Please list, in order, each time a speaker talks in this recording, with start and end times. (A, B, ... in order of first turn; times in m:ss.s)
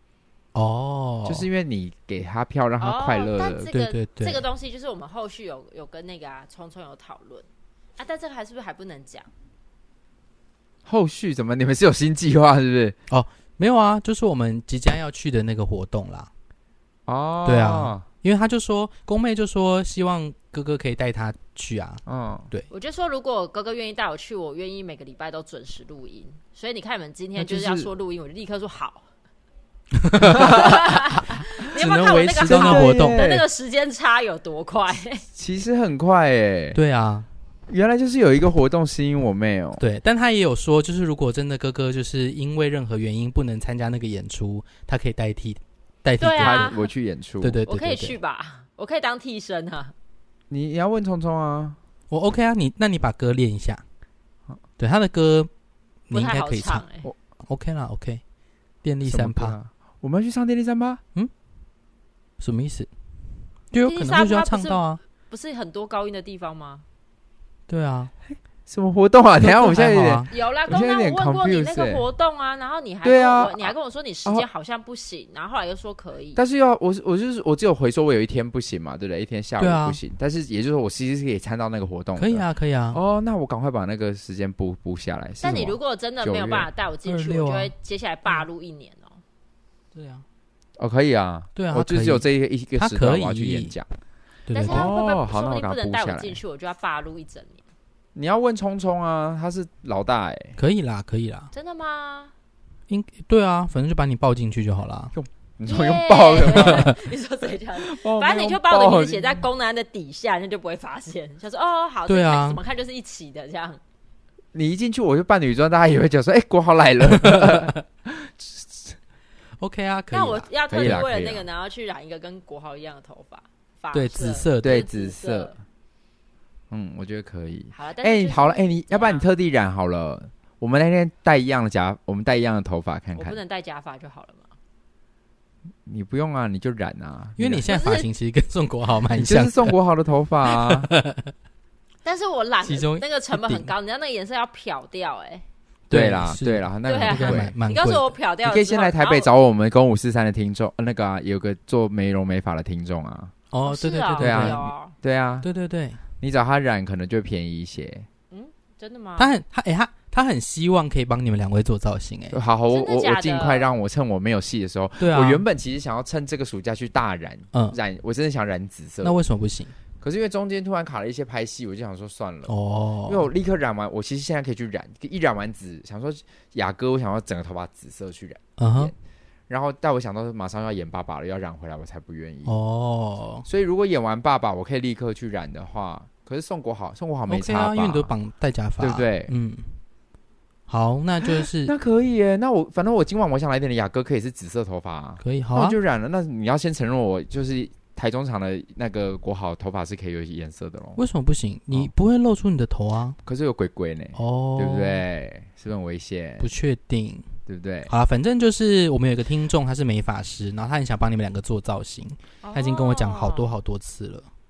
0:00.5-0:01.5 A
0:01.2-0:03.7 B
0:02.8-0:07.5 C
0:03.7-0:04.4 A
0:08.0-0:09.3 C
0:10.9-0:13.0 B
0:13.1-0:16.3 A
0:17.1-0:18.0 B
0:17.4-0:22.7 A
0:22.1-0:22.5 B
0:22.7-0:29.1 C
0:27.4-0:27.9 B
0:30.0-0:33.3 A
0:30.2-0:30.8 B
0:30.4-0:35.2 C
0:32.4-0:33.4 B
0:35.3-0:36.8 B
0:36.7-0:37.3 A
0:37.7-0:39.8 B
0:39.8-0:46.8 A
0:46.2-0:46.9 C
0:46.4-0:47.6 B
0:47.4-0:48.2 A
0:47.7-0:49.9 C
0:50.5-0:51.8 B
0:52.1-0:53.8 A
0:54.8-0:55.5 A
0:56.1-0:56.9 A
0:56.1-0:57.1 C
0:57.4-0:58.2 A
0:58.8-0:59.6 A
0:59.0-1:01.0 B
1:02.4-1:02.9 A
1:03.7-1:05.0 A
1:03.8-1:06.8 C
1:07.7-1:08.1 A
1:08.3-1:12.0 B
1:09.4-1:10.3 A
1:10.3-1:16.4 C
1:13.0-1:13.7 B
1:16.4-1:26.7 B
1:19.6-1:20.0 A
1:22.2-1:23.0 A
1:25.4-1:29.2 C
1:27.0-1:27.7 A
1:29.9-1:30.2 A
1:30.8-1:33.9 B
1:31.6-1:33.8 A
1:34.5-1:34.9 A
1:34.5-1:37.6 C
1:34.6-1:36.4 B
1:38.2-1:40.6 B
1:40.6-1:41.5 A
1:41.5-1:42.3 C
1:42.9-1:45.1 A
1:45.2-1:47.0 B
1:45.7-1:53.8 C
1:46.7-1:47.0 A
1:47.8-1:49.4 B
1:52.1-1:52.6 A
1:54.5-1:59.0 B
1:57.1-1:57.8 A
1:59.6-2:01.0 A
2:00.1-2:05.6 C
2:00.7-2:01.5 B
2:03.9-2:04.9 A
2:04.6-2:05.5 B
2:06.7-2:13.4 B
2:07.7-2:09.3 C
2:13.2-2:14.5 C
2:15.9-2:17.7 B
2:17.4-2:19.8 A
2:17.7-2:18.1 C
2:19.2-2:20.9 B
2:20.5-2:21.3 A
2:22.0-2:25.4 C
2:22.6-2:23.7 A
2:25.9-2:28.2 A
2:25.9-2:27.6 B
2:26.8-2:29.3 C
2:28.4-2:33.3 B
2:33.5-2:34.7 A
2:33.7-2:35.0 C
2:34.2-2:35.5 B
2:35.4-2:36.0 A
2:36.2-2:38.1 B
2:38.3-2:39.3 C
2:39.2-2:42.4 A
2:42.3-2:49.2 B
2:42.7-2:43.7 C
2:45.0-2:45.4 A
2:49.0-2:49.8 A
2:50.0-2:52.5 B
2:52.5-2:53.3 A
2:53.1-2:59.0 B
2:58.6-2:58.9 A
2:59.5-3:02.5 B
3:02.5-3:03.5 A
3:03.5-3:08.1 B
3:07.3-3:09.8 A
3:08.8-3:09.3 B
3:10.7-3:11.7 A
3:11.4-3:21.0 B
3:15.2-3:15.8 A
3:21.0-3:23.2 A
3:23.2-3:26.5 B
3:24.2-3:25.0 A
3:26.4-3:27.3 A
3:27.5-3:27.9 B
3:27.9-3:34.3 A
3:32.4-3:33.5 C